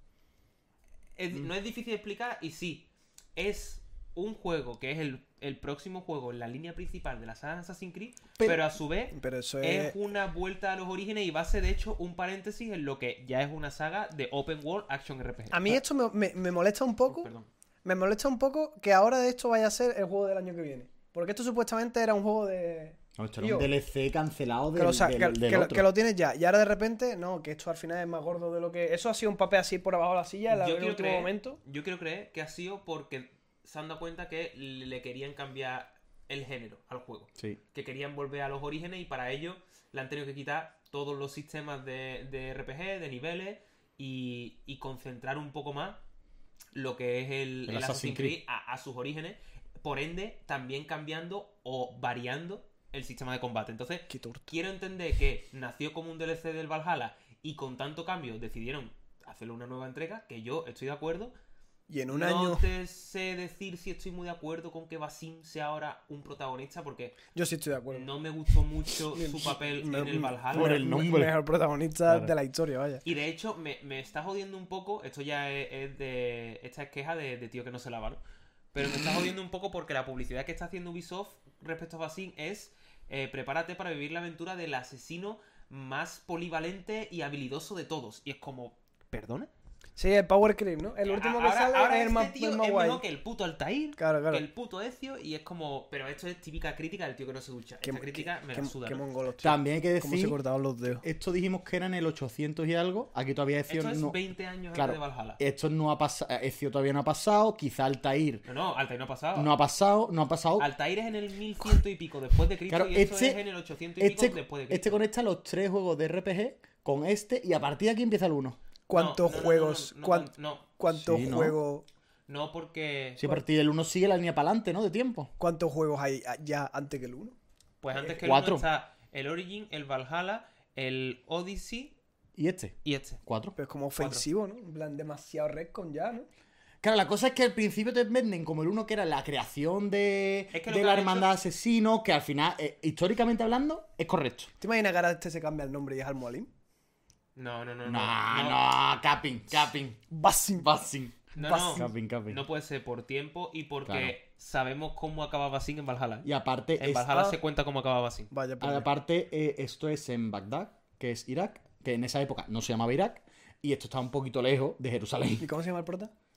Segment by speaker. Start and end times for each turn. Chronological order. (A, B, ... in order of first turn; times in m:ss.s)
0:01.2-0:15.8 A
0:08.4-0:08.7 B
0:09.1-0:10.0 C
0:15.5-0:17.3 C
0:17.1-0:17.5 A
0:17.8-0:23.7 C
0:23.2-0:25.9 B
0:24.8-0:31.6 C
0:30.5-0:46.0 A
0:46.7-1:01.3 A
0:47.7-0:48.4 B
0:54.1-0:54.5 C
1:01.9-1:02.7 C
1:02.1-1:07.2 A
1:07.3-1:08.1 C
1:07.9-1:10.8 A
1:09.1-1:13.0 C
1:10.5-1:11.4 B
1:12.1-1:12.3 B
1:13.0-1:18.2 A
1:18.7-1:29.5 A
1:30.0-1:33.0 C
1:31.0-1:39.0 A
1:34.0-1:34.4 C
1:37.8-1:41.0 C
1:39.4-1:40.4 B
1:41.0-1:44.2 B
1:43.7-1:45.4 A
1:44.7-1:48.5 B
1:48.5-1:49.5 A
1:49.4-1:50.7 B
1:50.6-1:55.0 A
1:52.7-1:53.4 B
1:54.0-1:58.6 B
1:58.9-2:01.8 C
1:58.9-2:00.7 A
2:00.9-2:01.6 B
2:02.3-2:03.2 A
2:03.2-2:05.3 B
2:05.4-2:07.4 C
2:07.8-2:12.0 A
2:08.1-2:08.7 B
2:12.4-2:13.6 B
2:12.8-2:13.2 A
2:13.6-2:16.3 C
2:14.0-2:14.2 A
2:16.8-2:24.5 B
2:20.5-2:21.3 A
2:24.6-2:26.5 C
2:27.4-2:28.7 A
2:27.9-2:30.0 B
2:30.1-2:30.7 C
2:30.6-2:32.4 B
2:31.4-2:38.3 A
2:31.4-2:31.9 C
2:33.9-2:34.2 B
2:36.2-2:37.1 B
2:37.1-2:37.4 C
2:38.3-2:38.9 C
2:38.6-2:45.5 B
2:45.4-2:46.1 C